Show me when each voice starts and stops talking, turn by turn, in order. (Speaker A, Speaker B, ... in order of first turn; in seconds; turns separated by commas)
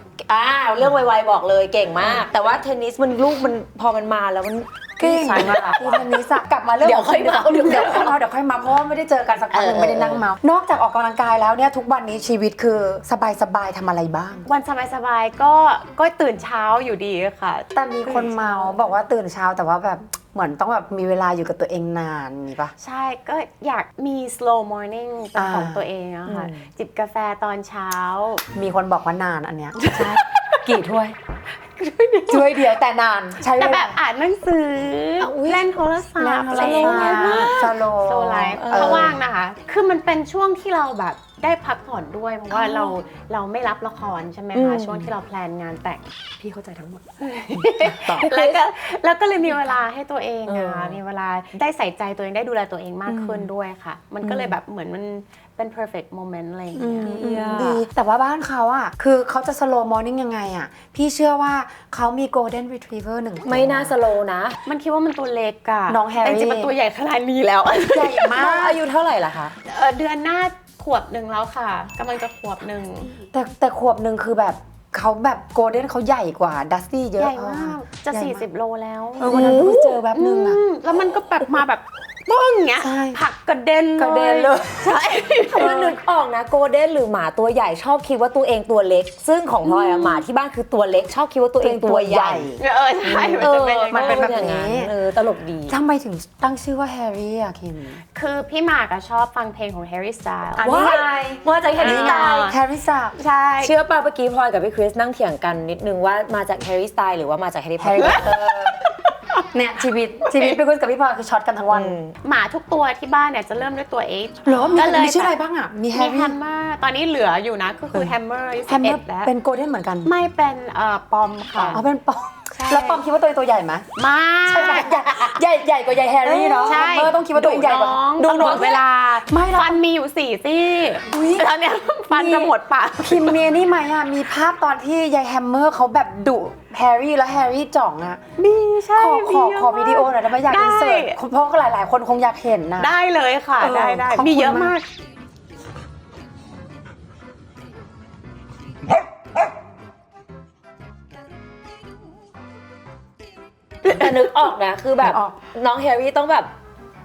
Speaker A: 0.2-8.2, Speaker B: 5.0-14.5, Speaker A: 9.5-10.2, Speaker C: 14.4-18.8, Speaker B: 17.7-22.7, Speaker C: 22.8-28.4, Speaker B: 25.3-25.8, Speaker A: 26.2-26.6, Speaker B: 28.5-31.1, Speaker C: 29.8-30.6, Speaker C: 31.8-32.7, Speaker B: 32.3-34.0, Speaker C: 33.5-57.6, Speaker A: 35.2-35.6, Speaker B: 36.2-39.2, Speaker A: 36.2-37.6, Speaker A: 38.6-39.1, Speaker B: 42.5-42.9, Speaker A: 44.5-45.1, Speaker B: 47.5-48.3, Speaker A: 48.1-48.6, Speaker A: 50.5-51.0, Speaker A: 53.1-53.4, Speaker A: 54.2-54.5, Speaker A: 56.8-57.8, Speaker B: 56.9-64.0, Speaker A: 63.4-64.6, Speaker C: 64.7-68.4, Speaker B: 65.9-66.7, Speaker B: 67.9-68.8, Speaker A: 68.3-69.5, Speaker C: 69.7-73.3, Speaker B: 73.3-78.5, Speaker C: 77.2-79.6, Speaker B: 79.2-80.6, Speaker A: 79.2-80.0, Speaker C: 80.1-85.8, Speaker B: 82.8-83.2, Speaker B: 84.0-84.6, Speaker A: 84.1-84.7, Speaker A: 85.5-92.5, Speaker B: 85.6-85.9, Speaker C: 89.6-90.2, Speaker B: 91.6-94.9, Speaker C: 92.6-94.3, Speaker A: 93.3-95.7, Speaker B: 95.7-98.0, Speaker C: 98.1-100.7, Speaker B: 100.6-103.1, Speaker A: 100.6-102.5, Speaker C: 101.8-102.6, Speaker C: 103.1-103.7, Speaker A: 103.6-108.4, Speaker B: 107.8-108.8, Speaker B: 109.5-112.0, Speaker A: 111.7-112.1, Speaker C: 112.2-115.4, Speaker B: 114.4-116.3, Speaker C: 115.9-119.3, Speaker B: 118.7-120.1, Speaker C: 120.0-121.8, Speaker B: 121.7-123.8, Speaker C: 122.5-123.0, Speaker C: 124.0-125.2, Speaker B: 124.5-129.8, Speaker A: 126.1-126.8, Speaker C: 126.6-133.5, Speaker A: 128.3-128.6, Speaker B: 131.1-131.5, Speaker B: 132.1-138.2, Speaker C: 138.4-141.2, Speaker B: 139.0-142.9, Speaker C: 142.8-144.9, Speaker B: 143.6-144.7, Speaker A: 153.8-156.5, Speaker B: 155.0-155.4